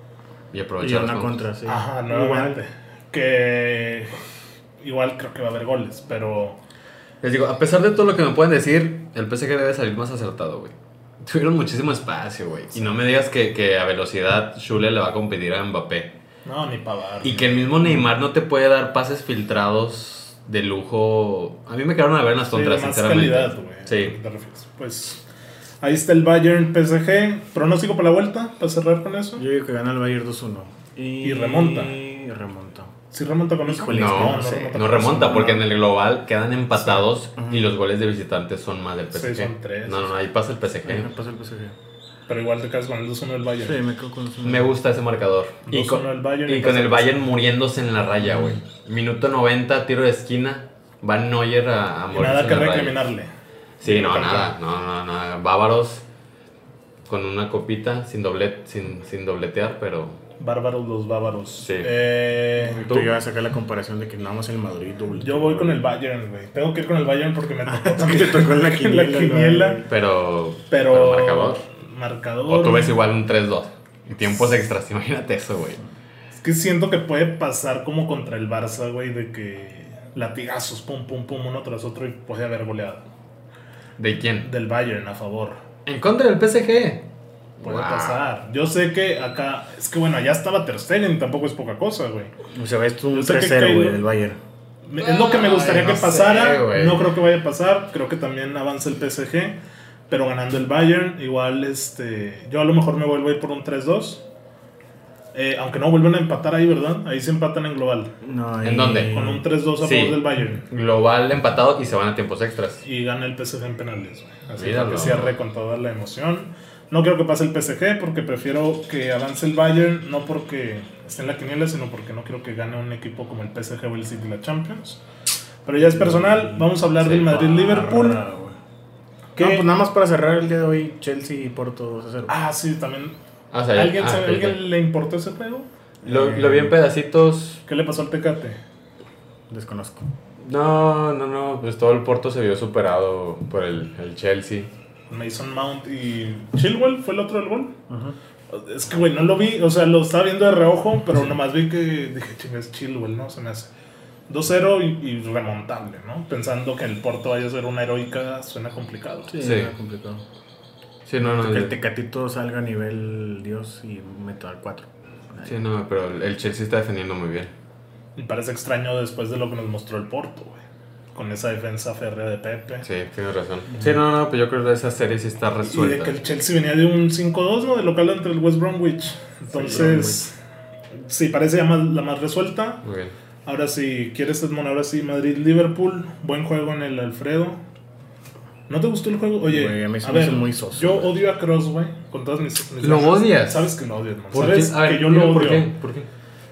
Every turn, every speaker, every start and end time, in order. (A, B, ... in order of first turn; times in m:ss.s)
0:00.5-0:01.4 A
0:00.8-0:02.6 B
0:01.7-0:04.1 C
0:04.8-0:06.6 C
0:07.2-0:16.1 A
0:16.4-0:17.6 C
0:17.2-0:24.2 A
0:22.5-0:25.2 C
0:25.8-0:29.4 C
0:29.4-0:32.9 B
0:31.2-0:32.0 C
0:33.1-0:35.6 C
0:33.7-0:35.6 B
0:33.9-0:41.1 A
0:37.4-0:37.7 B
0:39.1-0:40.1 C
0:40.8-0:41.8 B
0:42.3-0:43.8 C
0:43.6-0:44.7 B
0:44.4-0:53.1 A
0:45.7-0:47.2 C
0:52.1-0:53.3 C
0:53.8-0:56.0 A
0:53.8-0:54.5 C
0:57.1-1:00.2 A
1:00.4-1:02.8 C
1:01.6-1:01.9 A
1:02.7-1:05.8 B
1:02.8-1:03.1 A
1:05.2-1:09.8 C
1:07.7-1:09.9 B
1:09.9-1:11.6 A
1:10.7-1:13.0 C
1:12.5-1:15.8 A
1:16.4-1:23.0 C
1:24.0-1:24.5 A
1:24.4-1:25.6 C
1:25.9-1:27.0 A
1:27.6-1:28.2 A
1:27.6-1:32.3 C
1:32.5-1:34.4 B
1:33.1-1:34.0 C
1:34.9-1:39.6 C
1:35.0-1:37.1 A
1:40.1-1:44.2 C
1:45.3-1:48.1 C
1:48.2-1:49.4 B
1:48.6-1:49.1 A
1:49.1-1:50.6 C
1:49.8-1:52.8 A
1:52.8-2:05.0 C
1:54.6-1:55.3 A
2:05.6-2:08.2 C
2:05.8-2:06.7 B
2:07.0-2:07.4 A
2:07.3-2:08.6 B
2:09.4-2:09.7 C
2:09.4-2:12.3 B
2:12.3-2:13.2 C
2:13.5-2:14.6 A
2:13.7-2:15.7 C
2:16.0-2:17.6 A
2:16.1-2:16.7 B
2:17.7-2:18.6 C
2:19.5-2:20.1 B
2:20.4-2:24.7 A
2:25.1-2:27.7 C
2:27.9-2:28.2 B
2:28.5-2:33.7 C
2:34.3-2:39.3 C
2:39.3-2:40.2 B
2:39.4-2:39.7 A
2:41.1-2:41.7 A
2:41.2-2:45.6 B
2:45.4-2:47.5 A
2:48.2-2:50.6 C
2:51.2-2:52.8 C
2:52.8-2:56.1 A
2:55.6-3:00.3 C
2:59.6-3:00.2 B
3:01.0-3:02.8 C
3:02.8-3:03.1 A
3:03.5-3:07.6 C
3:08.7-3:15.7 C
3:09.5-3:11.2 B
3:12.8-3:13.7 A
3:14.3-3:16.1 A